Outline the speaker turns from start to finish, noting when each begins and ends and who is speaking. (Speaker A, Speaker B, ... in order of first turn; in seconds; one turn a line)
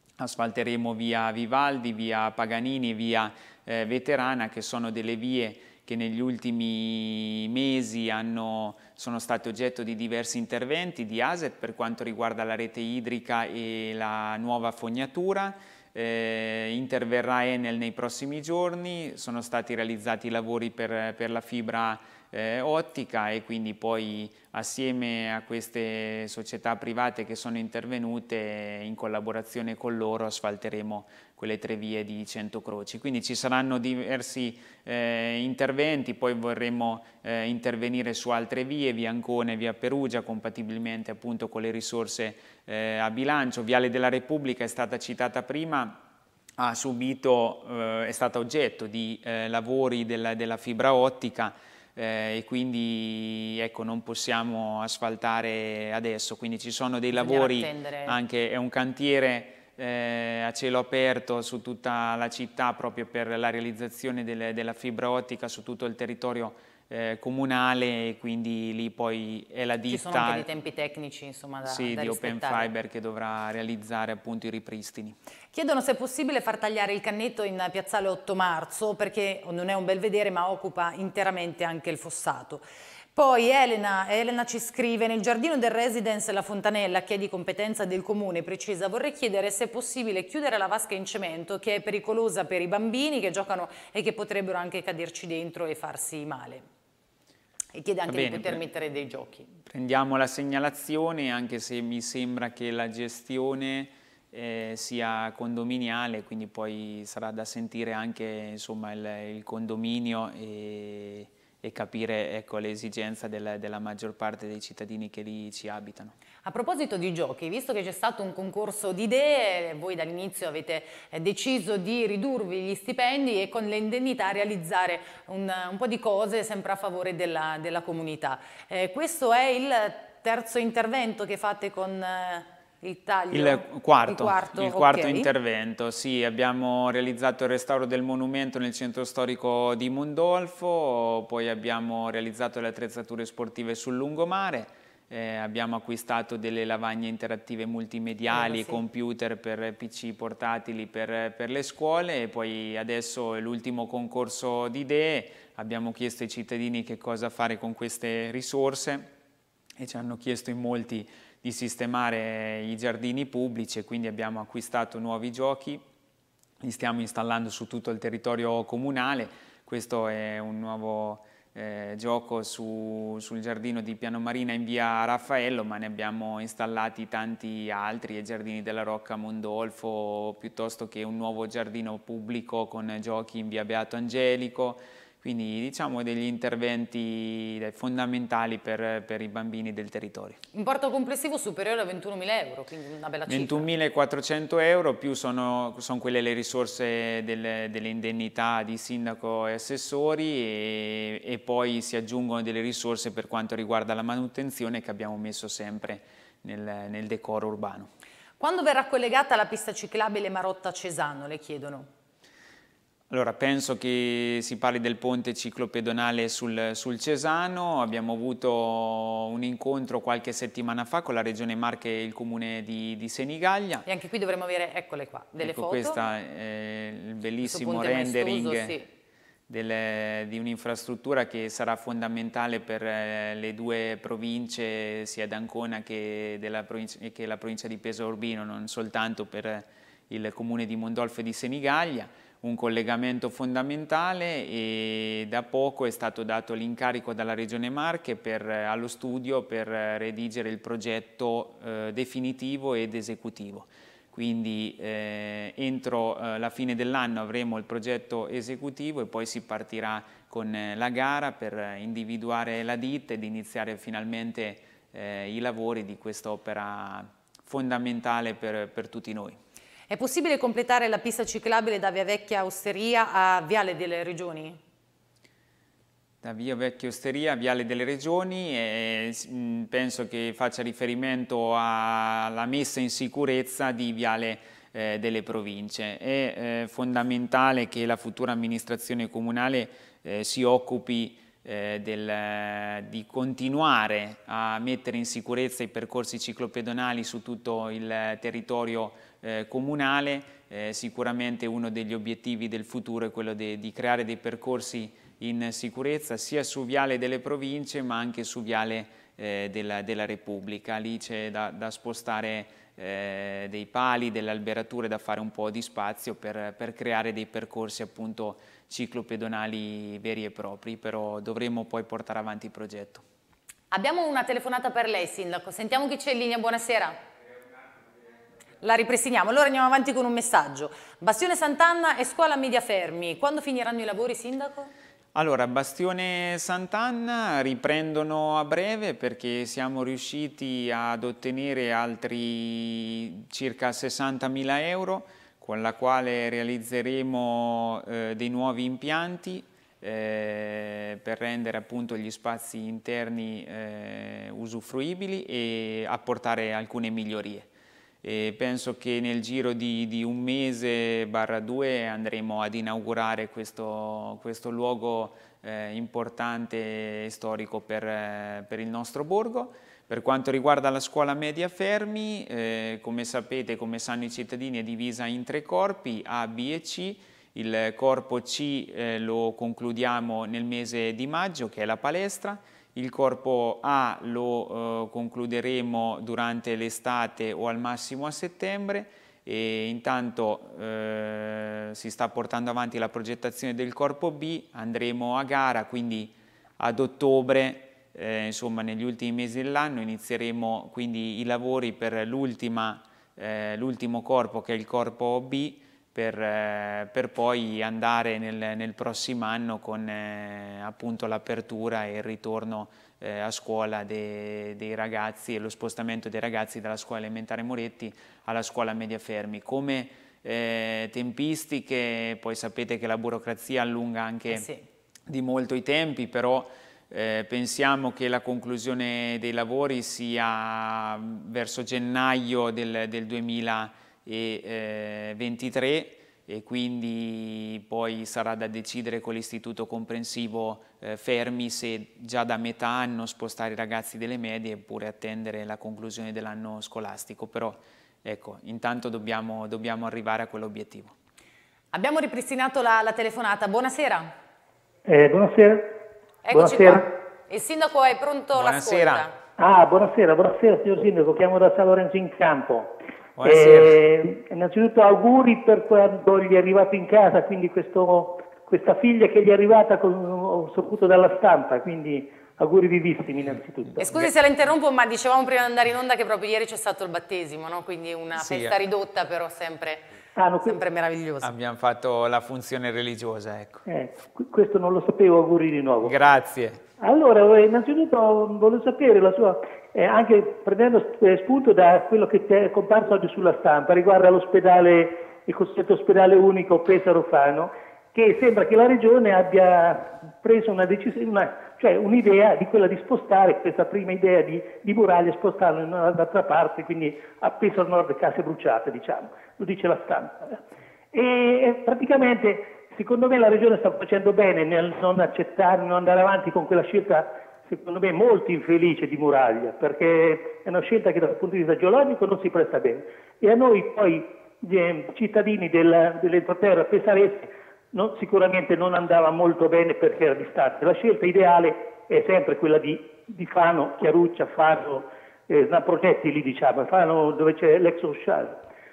Speaker A: 0.2-46.0
Speaker A: 46.6-70.5
Speaker B: 57.1-58.2
Speaker B: 69.9-72.7
Speaker A: 71.7-75.2
Speaker B: 75.5-82.6
Speaker B: 83.2-96.6
Speaker B: 97.7-99.5
Speaker A: 98.1-98.6
Speaker A: 99.6-116.1
Speaker B: 116.5-135.3
Speaker A: 133.3-159.1
Speaker B: 148.3-148.8
Speaker A: 159.8-165.8
Speaker A: 166.6-190.4
Speaker B: 190.5-193.7
Speaker A: 193.3-207.9
Speaker B: 208.4-211.9
Speaker A: 213.1-223.9
Speaker B: 223.9-226.0
Speaker A: 225.4-228.8
Speaker B: 227.4-228.9
Speaker A: 229.5-269.4
Speaker B: 269.9-274.6
Speaker A: 276.2-323.0
Speaker B: 323.7-327.0
Speaker B: 328.6-334.7
Speaker A: 335.1-357.5
Speaker A: 358.0-424.5
Speaker B: 424.3-424.6
Speaker A: 425.1-450.9
Speaker B: 451.7-454.1
Speaker C: 454.9-455.8
Speaker B: 456.2-459.2
Speaker C: 456.3-456.9
Speaker A: 458.4-459.1
Speaker C: 459.4-473.9
Speaker A: 463.2-463.8
Speaker B: 473.8-479.9
Speaker A: 478.2-478.6
Speaker C: 480.2-480.6
Speaker B: 480.4-481.3
Speaker A: 481.2-483.6
Speaker C: 483.7-486.0
Speaker A: 485.8-486.6
Speaker C: 486.8-510.4
Speaker C: 510.9-538.4